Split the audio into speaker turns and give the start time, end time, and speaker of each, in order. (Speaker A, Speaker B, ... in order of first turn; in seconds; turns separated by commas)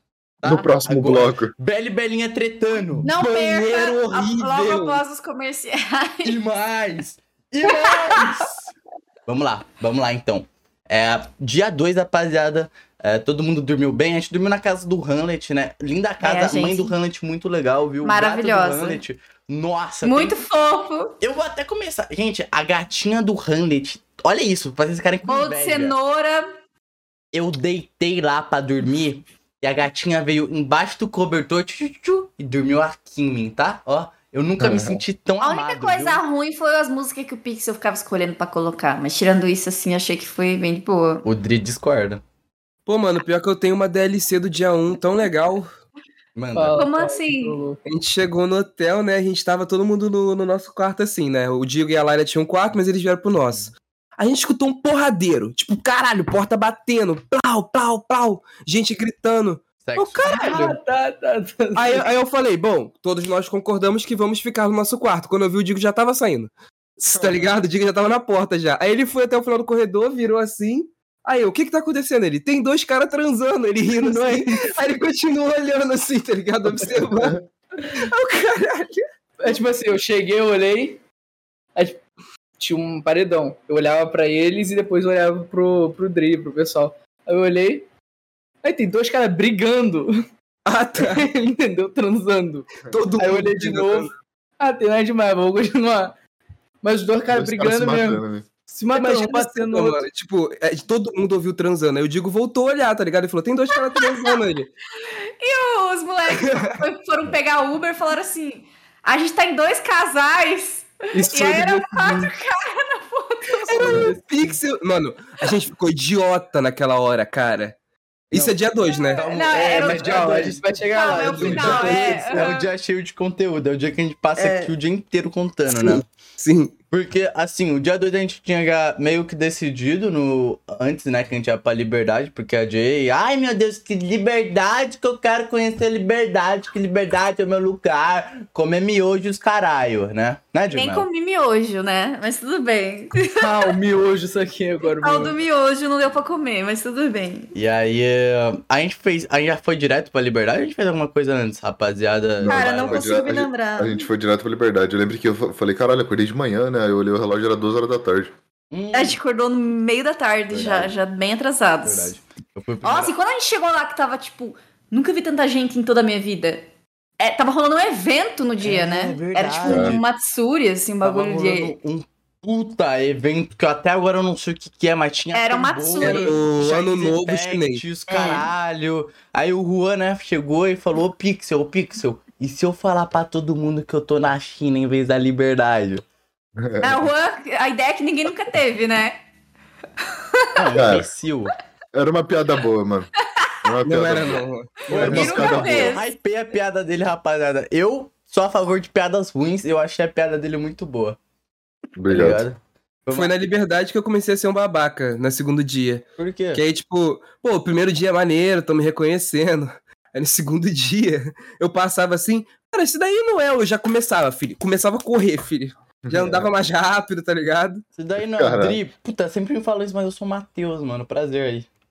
Speaker A: 0.4-3.1, Speaker B: 0.4-1.5, Speaker C: 3.0-6.4, Speaker D: 3.1-5.0, Speaker A: 6.2-8.7, Speaker C: 7.6-8.4, Speaker A: 9.3-20.4, Speaker C: 16.2-16.9, Speaker C: 18.0-19.0, Speaker C: 20.1-21.1, Speaker A: 21.2-25.9, Speaker C: 25.2-26.5, Speaker A: 27.3-36.2, Speaker B: 34.6-35.0, Speaker C: 35.4-41.3, Speaker A: 41.2-42.2, Speaker D: 42.9-45.7, Speaker A: 46.4-46.8, Speaker E: 46.5-47.8, Speaker C: 46.8-47.6, Speaker D: 47.9-60.8, Speaker A: 59.8-60.2, Speaker E: 60.2-62.1, Speaker D: 61.8-77.4, Speaker E: 74.0-74.7, Speaker D: 77.9-79.0, Speaker E: 79.4-81.0, Speaker E: 81.8-82.0, Speaker E: 82.6-87.9, Speaker E: 88.6-90.1, Speaker D: 90.7-91.3, Speaker E: 91.0-96.1, Speaker D: 92.8-94.1, Speaker E: 96.8-100.0, Speaker B: 97.3-98.5, Speaker D: 98.9-104.7, Speaker C: 103.7-104.4, Speaker C: 105.4-114.1, Speaker D: 106.3-106.8, Speaker E: 111.1-112.3, Speaker D: 113.7-117.8, Speaker E: 113.8-114.6, Speaker D: 118.3-119.3, Speaker A: 118.3-126.1, Speaker C: 119.1-120.4, Speaker E: 119.5-122.5, Speaker C: 120.9-122.7, Speaker D: 121.4-121.9, Speaker D: 124.4-124.7, Speaker D: 125.7-126.7, Speaker A: 126.9-141.1, Speaker C: 140.7-143.7, Speaker E: 143.4-145.4, Speaker C: 144.8-147.5, Speaker A: 147.6-153.1, Speaker B: 152.4-158.3, Speaker C: 152.5-154.1, Speaker A: 158.7-159.2, Speaker C: 158.9-162.2, Speaker A: 160.5-160.9, Speaker A: 161.8-163.1, Speaker C: 162.8-166.6, Speaker C: 167.2-171.8, Speaker A: 168.6-170.0, Speaker B: 169.7-170.0, Speaker A: 171.0-186.0, Speaker C: 175.3-176.4, Speaker D: 176.0-177.8, Speaker C: 178.1-178.5, Speaker B: 186.6-187.1, Speaker C: 186.8-189.2, Speaker A: 190.6-191.5, Speaker B: 190.7-191.1, Speaker B: 191.9-193.1, Speaker B: 193.6-196.0, Speaker D: 193.8-195.3, Speaker A: 194.9-201.2, Speaker C: 194.9-196.1, Speaker B: 202.0-202.4, Speaker A: 202.1-203.3, Speaker D: 203.1-217.8, Speaker A: 206.2-206.6, Speaker B: 216.1-216.5, Speaker A: 217.9-221.7, Speaker B: 218.4-218.8